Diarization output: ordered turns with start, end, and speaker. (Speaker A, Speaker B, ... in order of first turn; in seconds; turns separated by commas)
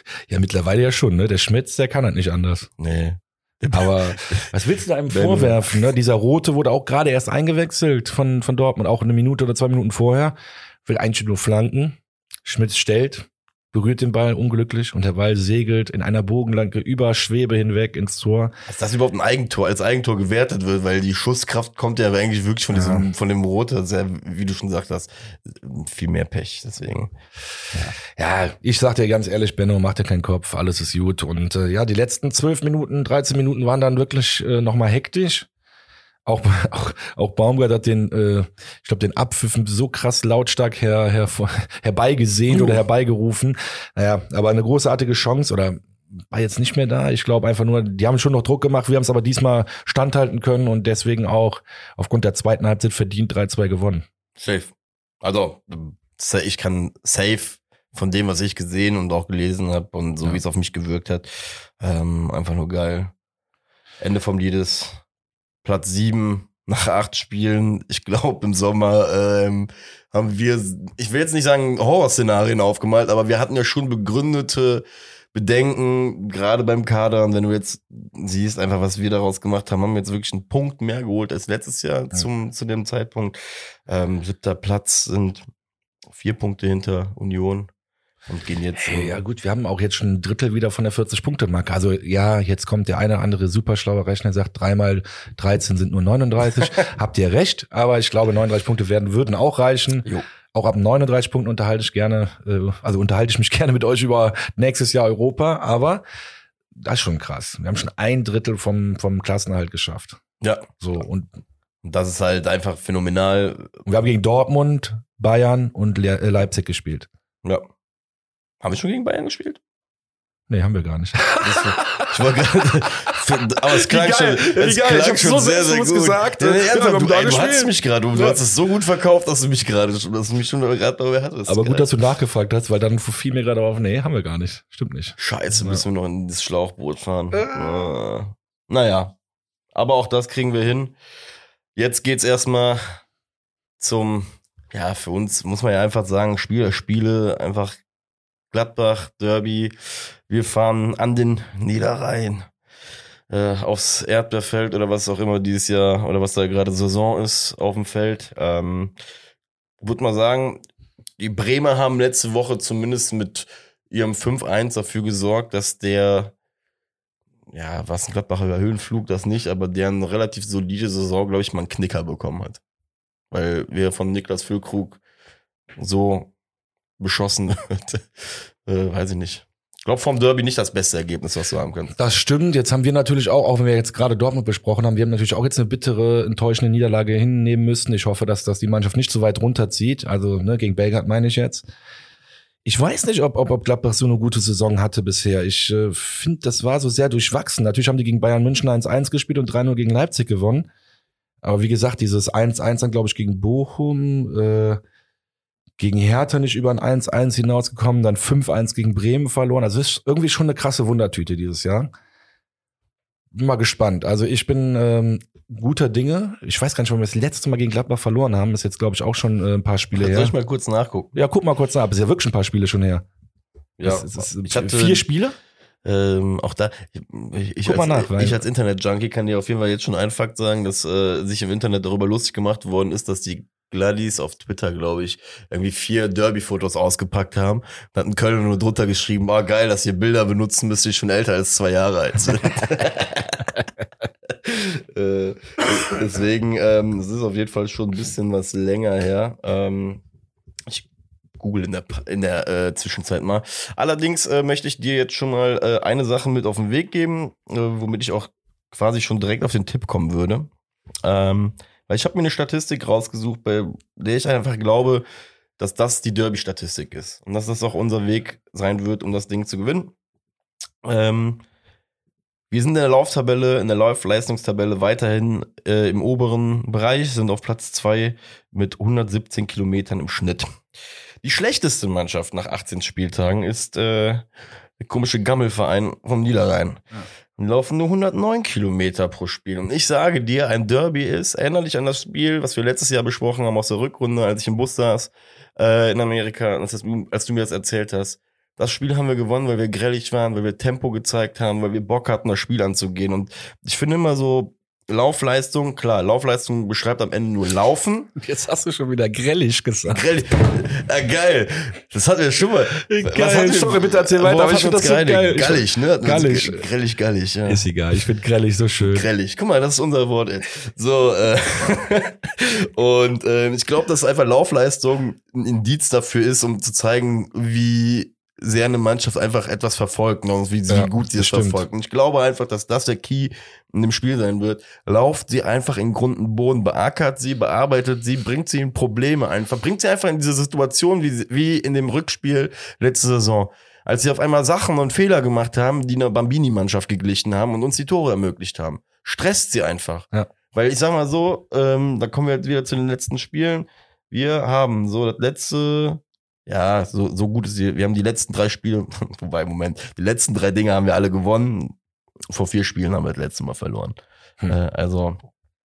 Speaker A: 0.3-2.7, Speaker B: 2.8-4.5, Speaker A: 3.7-18.5, Speaker B: 5.1-5.6, Speaker B: 18.7-27.1, Speaker A: 22.7-23.1, Speaker A: 28.1-35.5, Speaker A: 36.3-54.1, Speaker B: 42.5-42.8, Speaker B: 54.4-63.1, Speaker B: 64.0-65.0, Speaker B: 65.6-85.5, Speaker B: 86.1-87.7, Speaker B: 88.3-89.2, Speaker A: 88.8-106.0, Speaker A: 106.8-110.2, Speaker B: 110.4-110.7, Speaker A: 110.8-111.3, Speaker B: 111.8-113.8, Speaker A: 113.9-117.1, Speaker B: 118.6-119.6, Speaker A: 120.5-122.1, Speaker B: 121.4-131.9, Speaker A: 123.5-128.4, Speaker A: 131.5-135.8, Speaker B: 135.2-139.2, Speaker A: 137.3-137.9, Speaker B: 139.8-141.0, Speaker B: 141.8-142.8, Speaker B: 143.8-147.8, Speaker B: 148.5-152.5, Speaker B: 153.3-158.9, Speaker B: 159.8-160.6, Speaker B: 161.2-166.3, Speaker B: 167.5-172.6, Speaker B: 173.3-175.0, Speaker B: 175.8-176.3, Speaker B: 177.0-181.9, Speaker A: 182.0-191.6, Speaker A: 192.7-200.7, Speaker A: 201.4-204.8, Speaker A: 205.8-211.9, Speaker A: 213.3-220.3, Speaker B: 220.0-221.1, Speaker A: 221.1-223.1, Speaker B: 223.8-225.0, Speaker A: 223.8-225.3, Speaker B: 225.8-243.6, Speaker A: 227.7-228.4, Speaker B: 244.3-250.0, Speaker B: 251.4-260.5, Speaker B: 261.0-265.1, Speaker B: 265.6-269.9, Speaker B: 270.8-271.4, Speaker B: 272.5-280.5, Speaker B: 281.2-284.3, Speaker B: 284.8-286.8, Speaker B: 287.4-308.1, Speaker A: 308.2-310.0, Speaker B: 309.9-317.6, Speaker A: 312.8-316.7, Speaker A: 317.5-319.1, Speaker B: 318.8-361.8, Speaker A: 330.7-331.7, Speaker B: 362.3-364.0, Speaker B: 364.5-365.2